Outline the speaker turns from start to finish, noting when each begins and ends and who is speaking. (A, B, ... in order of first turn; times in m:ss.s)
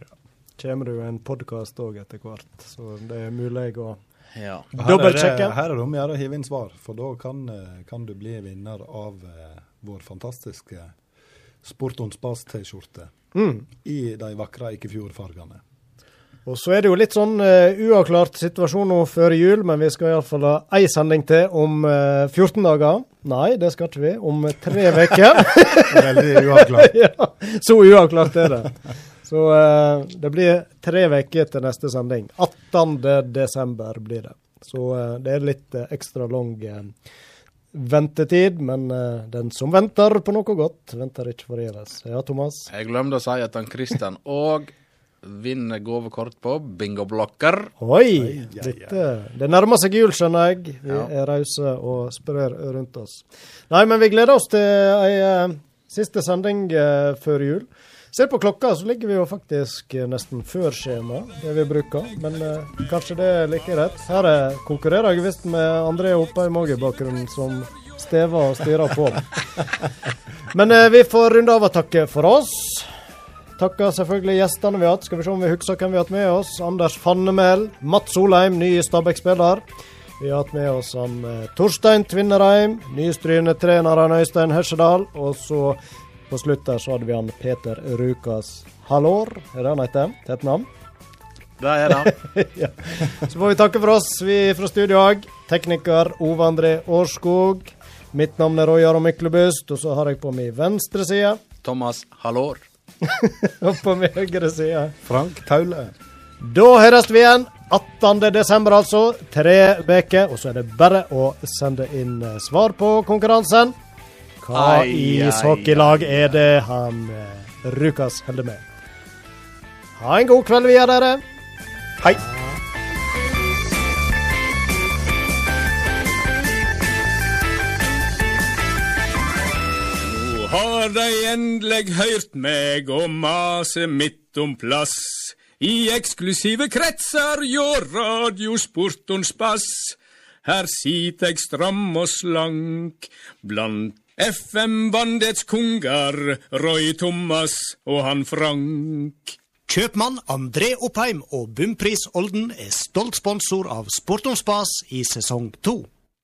0:00.6-0:04.0 A
0:04.3-0:04.7 B
0:04.7-0:05.5 A
0:04.7-0:10.9 C
0:11.6-0:13.1 C
0:13.3-0:13.6 A
0:13.8-0:15.6 C
0:16.4-0:36.9 A
0:25.9-0:26.9 C
0:37.7-0:42.7 A
0:42.7-0:44.7 B
0:45.2-0:47.7 B
0:47.8-1:09.4 A
0:48.2-0:48.9 C
1:10.5-1:12.9 A
1:13.6-1:19.6 A
1:20.2-1:30.7 A
1:31.6-1:32.2 B
1:31.9-1:41.4 A
1:41.6-1:42.6 B
1:43.0-1:44.9 A
1:45.0-1:45.9 C
1:46.4-1:53.7 A
1:54.4-1:58.6 A
1:54.5-1:56.3 B
2:00.0-2:01.2 A
2:02.1-2:02.5 A
2:10.0-2:29.4 D
2:29.7-2:35.9 E